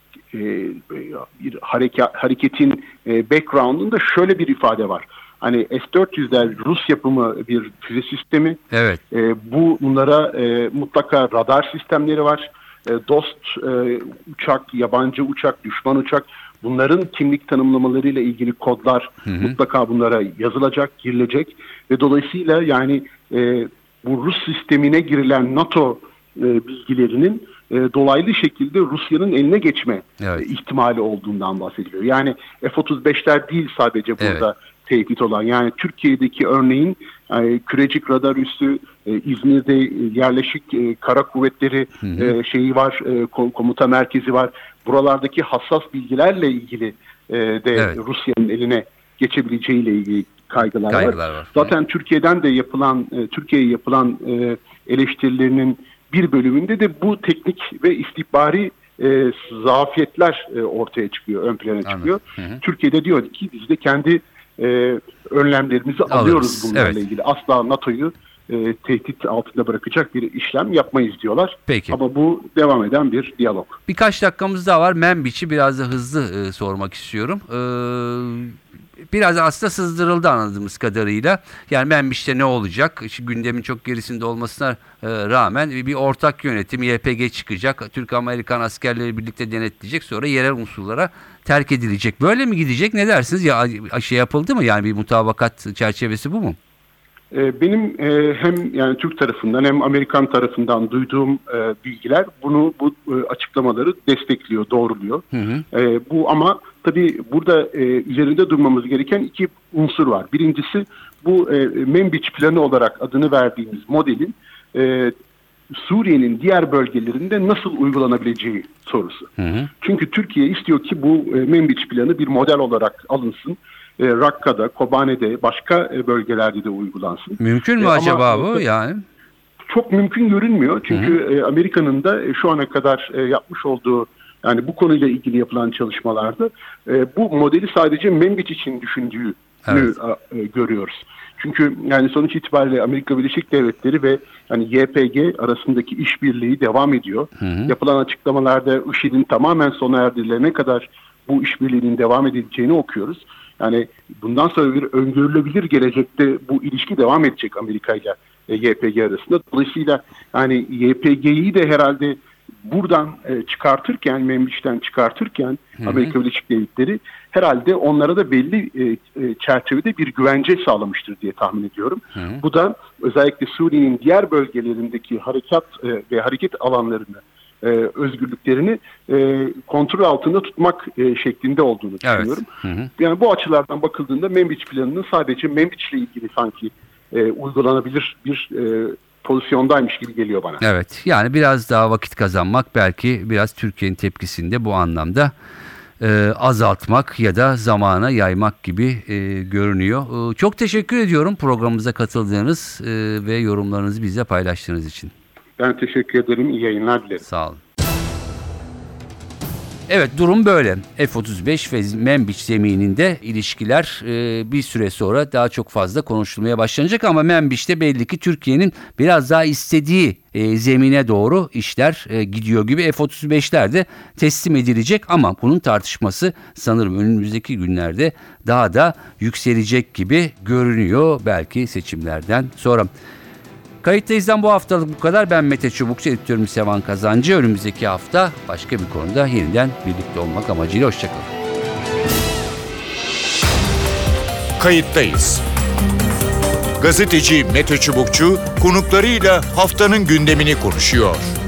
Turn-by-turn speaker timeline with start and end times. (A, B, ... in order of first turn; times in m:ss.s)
0:00.3-1:13.8 A
0:08.7-0:09.0 B
0:34.2-0:34.4 B
0:42.0-0:42.3 B
0:50.9-0:51.7 B
1:01.8-1:02.6 B
1:06.1-1:07.0 B
1:11.7-1:12.0 B
1:13.9-1:18.6 B
1:19.1-1:36.6 B
1:37.3-1:55.1 A
1:45.3-1:45.6 B
1:55.7-1:59.3 A
1:59.4-1:59.7 B
1:59.8-2:08.6 A
2:07.4-2:09.0 B
2:09.7-3:02.4 A
2:19.7-2:19.9 B
2:27.4-2:27.7 B
2:45.8-2:46.1 B
2:52.2-2:52.4 B
3:02.0-3:02.9 B
3:03.0-3:10.6 A
3:10.6-3:15.3 B
3:16.0-3:25.1 B
3:25.6-3:27.2 A
3:27.2-3:27.6 B
3:29.9-3:52.9 B
3:53.8-4:01.3 B
4:04.6-4:05.4 C
4:06.8-4:11.3 C